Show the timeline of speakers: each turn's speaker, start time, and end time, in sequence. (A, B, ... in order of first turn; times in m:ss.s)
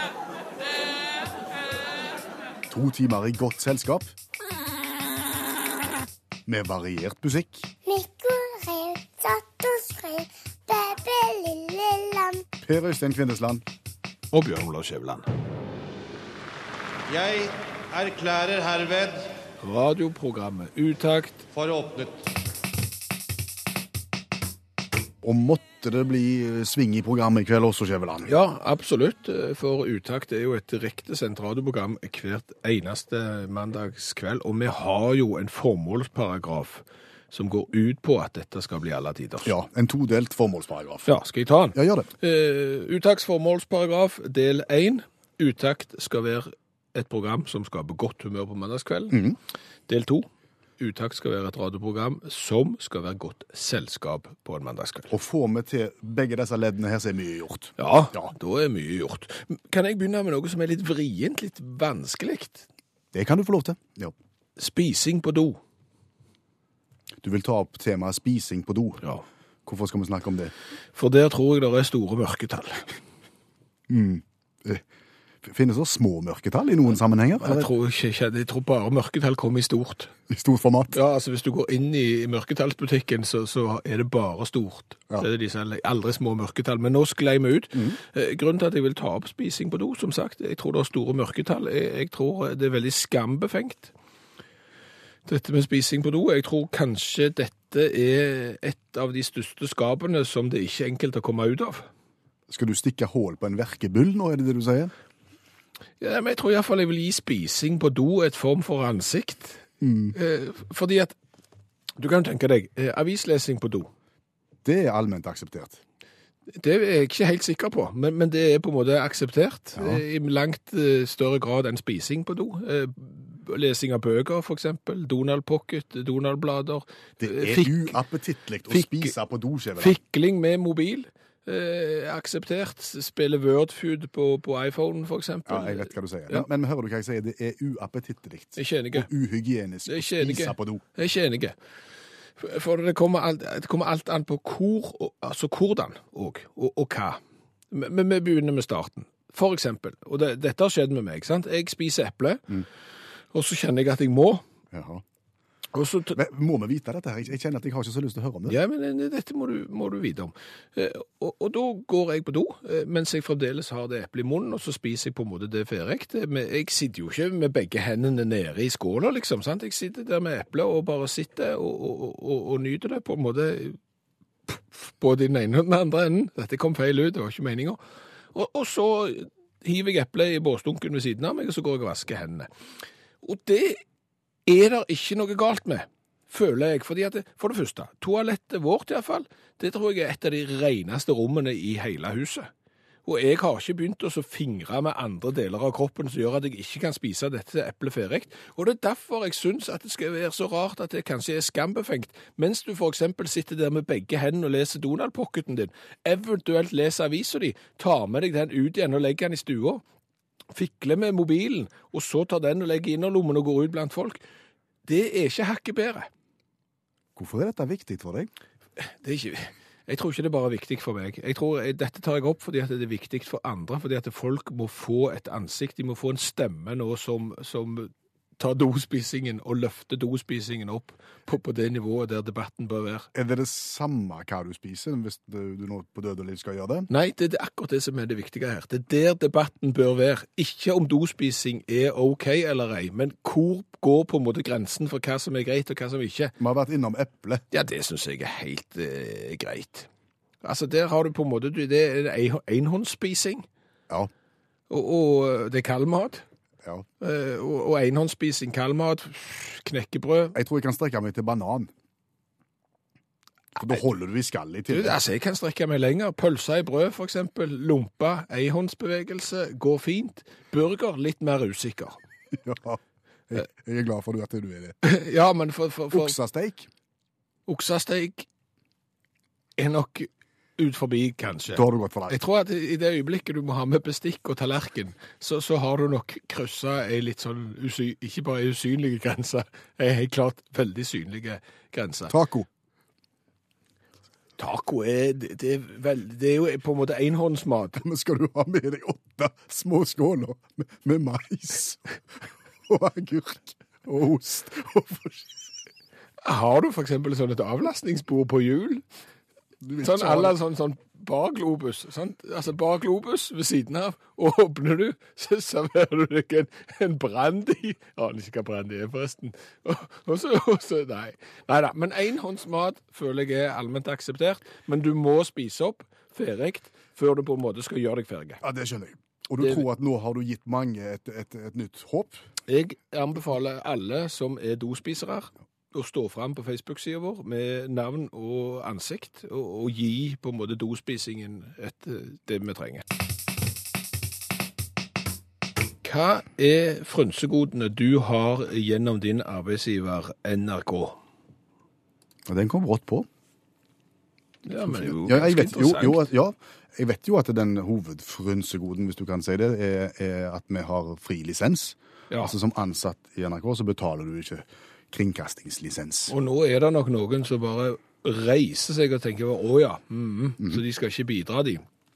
0:02.7-0:04.1 A
0:06.4-0:07.7 A
0:07.8-0:12.4 B
0:12.6-0:13.6 A
0:14.3-0:15.2 C
0:17.1-0:19.2 D
0:19.6-0:21.5 C
0:21.7-0:22.1 D
0:25.2-0:28.3 A
0:28.3-0:39.5 C
0:39.4-0:41.1 A
0:41.0-0:49.3 C
0:41.7-0:42.1 A
0:49.1-0:49.4 A
0:49.9-0:50.2 C
0:50.8-0:55.1 C
0:55.1-0:58.3 A
0:57.8-1:02.6 C
1:03.1-1:04.1 A
1:04.6-1:05.6 C
1:07.2-1:09.0 A
1:09.6-1:10.5 A
1:10.9-1:13.0 C
1:13.9-1:14.8 A
1:15.4-1:17.7 A
1:17.4-1:20.1 C
1:20.3-1:21.0 A
1:20.9-1:33.9 C
1:35.2-1:41.9 C
1:42.5-1:44.9 A
1:46.0-1:51.1 C
1:49.8-1:50.2 A
1:52.0-1:53.9 C
1:54.6-1:55.8 A
1:56.6-2:08.0 C
1:59.8-2:00.0 A
2:07.2-2:10.0 A
2:08.7-2:09.1 C
2:09.8-2:16.4 C
2:15.5-2:20.8 A
2:18.6-2:19.1 C
2:19.9-2:21.5 C
2:22.4-2:27.2 C
2:27.7-2:32.6 C
2:33.3-2:34.4 C
2:34.7-2:35.0 A
2:35.7-2:36.2 C
2:36.1-2:38.6 A
2:38.5-2:53.8 C
2:54.5-2:57.8 C
2:58.3-3:02.5 C
3:03.2-3:03.8 C
3:04.4-3:12.5 C
3:13.0-3:29.8 C
3:30.5-3:34.2 C
3:34.8-3:36.1 C
3:37.2-3:38.3 A
3:38.8-3:53.1 C
3:53.1-3:56.9 A
3:56.9-4:06.3 C
4:06.4-4:07.4 A
4:07.5-4:09.9 C
4:10.4-4:13.4 C
4:14.7-4:16.2 C
4:17.0-4:20.4 C
4:20.3-4:21.7 A
4:23.6-4:25.0 A
4:24.7-4:32.0 C
4:32.3-4:34.8 A
4:34.8-4:36.2 C
4:35.9-4:36.7 A
4:37.5-4:38.2 C
4:39.6-4:52.1 C
4:41.5-4:42.2 A
4:52.1-4:52.5 A
4:54.4-4:57.8 C
4:57.8-5:05.4 A
5:06.2-5:08.8 C
5:09.6-5:10.4 A
5:09.8-5:28.4 C
5:28.4-5:32.2 A
5:32.5-5:42.8 C
5:45.8-5:51.0 C
5:52.3-5:53.1 A
5:54.4-5:56.0 C
5:54.6-6:06.1 A
6:06.1-6:11.6 C